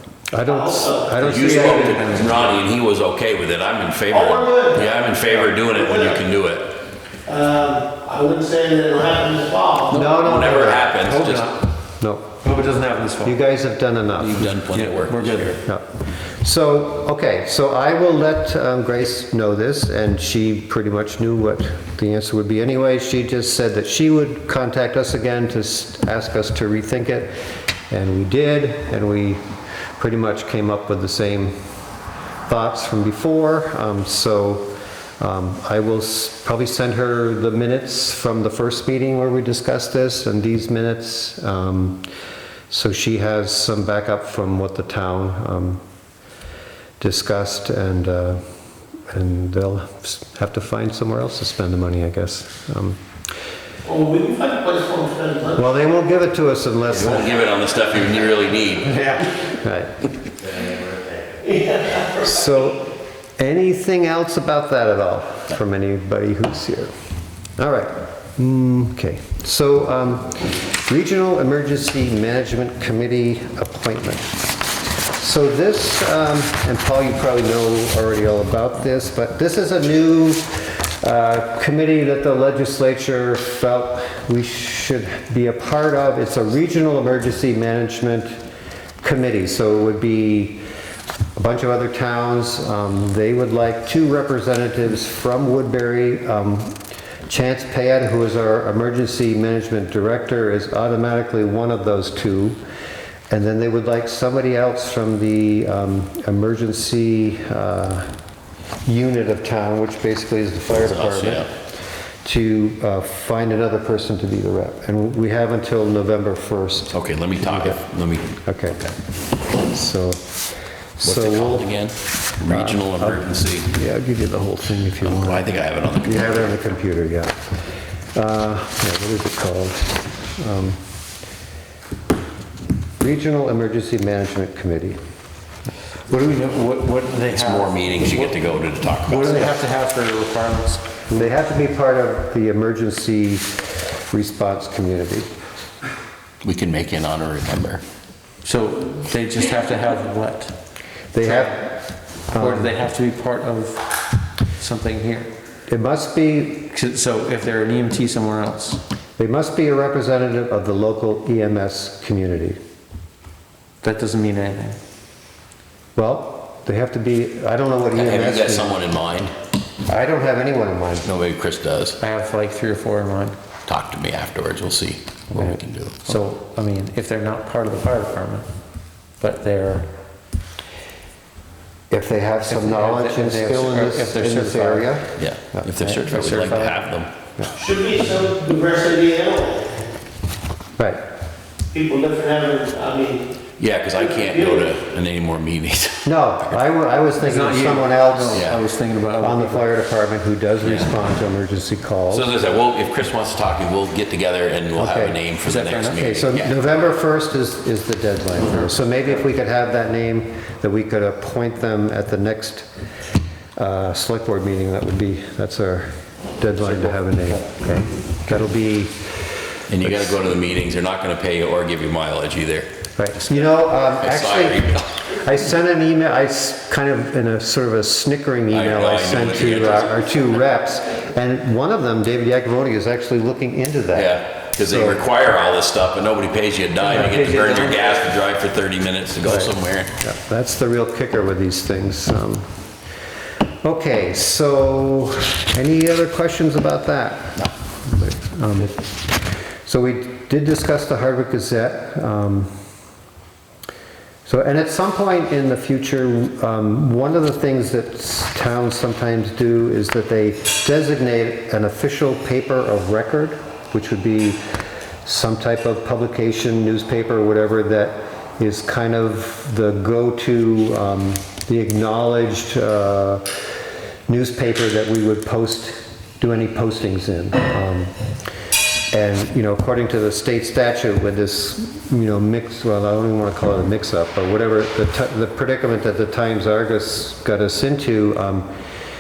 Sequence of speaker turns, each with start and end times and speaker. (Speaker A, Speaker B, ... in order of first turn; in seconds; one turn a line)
Speaker A: 0.3-2.0
Speaker B: 0.5-2.4
Speaker C: 1.2-6.8
Speaker D: 2.0-2.5
Speaker B: 4.1-6.2
Speaker B: 7.3-10.0
Speaker C: 9.9-11.6
Speaker A: 9.9-12.4
Speaker D: 12.4-13.3
Speaker A: 13.2-14.5
Speaker C: 14.2-15.6
Speaker D: 14.7-15.6
Speaker A: 15.6-27.3
Speaker A: 27.9-29.4
Speaker A: 29.9-31.6
Speaker A: 32.5-34.7
Speaker A: 35.2-42.0
Speaker A: 42.7-45.8
Speaker A: 47.0-48.4
Speaker A: 49.1-53.0
Speaker B: 53.8-55.7
Speaker A: 55.5-57.3
Speaker C: 56.9-59.2
Speaker A: 59.3-60.1
Speaker C: 60.4-61.3
Speaker B: 61.4-62.4
Speaker A: 62.2-62.9
Speaker A: 63.4-66.9
Speaker A: 67.6-74.4
Speaker A: 75.2-88.4
Speaker A: 89.0-90.6
Speaker A: 91.4-102.6
Speaker A: 103.3-108.1
Speaker A: 108.9-111.5
Speaker C: 110.8-111.5
Speaker A: 112.2-117.8
Speaker C: 116.9-118.9
Speaker A: 118.4-118.8
Speaker A: 119.6-120.4
Speaker A: 121.0-121.8
Speaker C: 121.0-123.7
Speaker A: 122.5-127.5
Speaker C: 125.0-126.6
Speaker A: 128.1-130.8
Speaker A: 133.0-135.0
Speaker D: 136.1-138.3
Speaker C: 137.2-139.6
Speaker D: 139.1-140.9
Speaker A: 141.1-145.3
Speaker C: 146.4-147.8
Speaker D: 148.4-150.5
Speaker A: 151.1-151.8
Speaker A: 152.3-152.8
Speaker D: 152.3-153.9
Speaker D: 154.6-155.3
Speaker A: 155.7-156.7
Speaker D: 156.7-158.8
Speaker A: 159.2-162.6
Speaker D: 163.8-164.8
Speaker A: 166.0-168.8
Speaker C: 167.9-169.3
Speaker A: 169.9-171.1
Speaker C: 171.1-172.0
Speaker D: 172.0-173.4
Speaker C: 173.7-176.2
Speaker D: 175.3-178.5
Speaker D: 179.2-179.9
Speaker A: 181.9-186.0
Speaker D: 182.4-184.9
Speaker C: 185.2-187.1
Speaker D: 185.9-186.9
Speaker B: 187.5-189.9
Speaker B: 191.7-193.3
Speaker C: 193.6-196.5
Speaker B: 194.0-194.7
Speaker A: 196.1-198.5
Speaker D: 197.2-199.7
Speaker C: 198.3-198.6
Speaker A: 199.2-202.3
Speaker C: 200.6-201.0
Speaker C: 202.1-206.5
Speaker A: 204.8-205.2
Speaker D: 205.5-206.0
Speaker A: 206.0-212.7
Speaker A: 213.6-219.3
Speaker D: 216.8-217.3
Speaker C: 219.7-222.7
Speaker A: 219.8-220.1
Speaker A: 223.0-235.0
Speaker C: 223.9-225.0
Speaker C: 228.5-230.2
Speaker C: 233.9-239.9
Speaker D: 236.9-237.8
Speaker A: 239.2-242.5
Speaker A: 243.6-248.8
Speaker A: 249.6-252.5
Speaker A: 254.3-264.4
Speaker A: 265.0-273.4
Speaker A: 274.1-277.9
Speaker A: 278.9-288.5